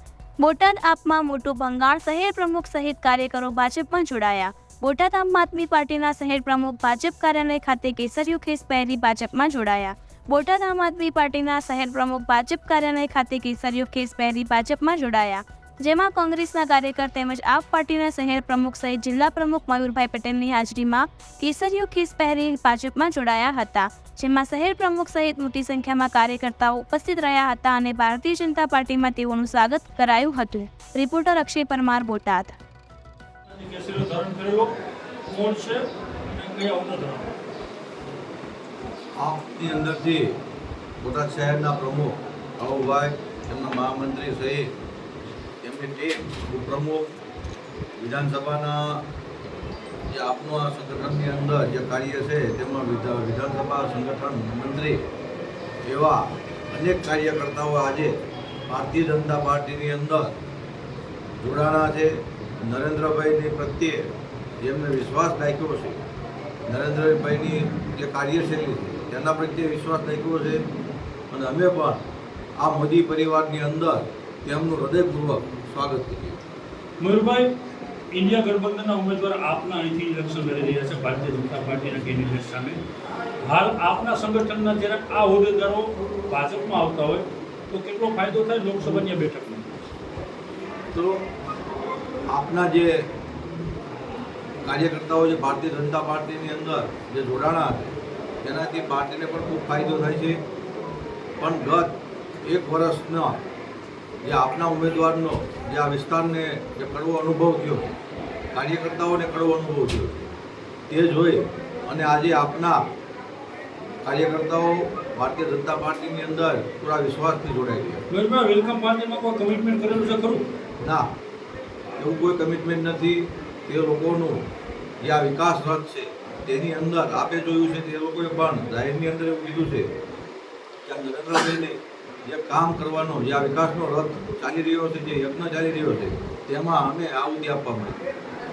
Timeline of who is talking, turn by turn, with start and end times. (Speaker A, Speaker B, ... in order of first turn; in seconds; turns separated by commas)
Speaker A: 0.4-32.5, Speaker B: 33.5-34.7, Speaker B: 35.2-37.3, Speaker C: 39.2-40.4, Speaker C: 41.0-44.7, Speaker C: 45.6-47.1, Speaker C: 48.0-49.0, Speaker C: 50.1-55.0, Speaker C: 55.8-60.3, Speaker C: 61.4-64.1, Speaker C: 64.6-66.0, Speaker C: 66.7-70.6, Speaker C: 71.3-72.0, Speaker C: 72.6-76.4, Speaker B: 77.0-77.5, Speaker B: 78.1-82.8, Speaker B: 83.4-89.7, Speaker C: 90.9-91.2, Speaker C: 92.3-93.1, Speaker C: 94.6-100.4, Speaker C: 101.4-103.4, Speaker C: 104.2-107.9, Speaker C: 108.5-110.1, Speaker C: 110.9-112.8, Speaker C: 114.0-118.0, Speaker B: 118.1-120.5, Speaker C: 120.8-121.1, Speaker C: 122.0-124.5, Speaker C: 125.0-129.9, Speaker C: 130.8-138.0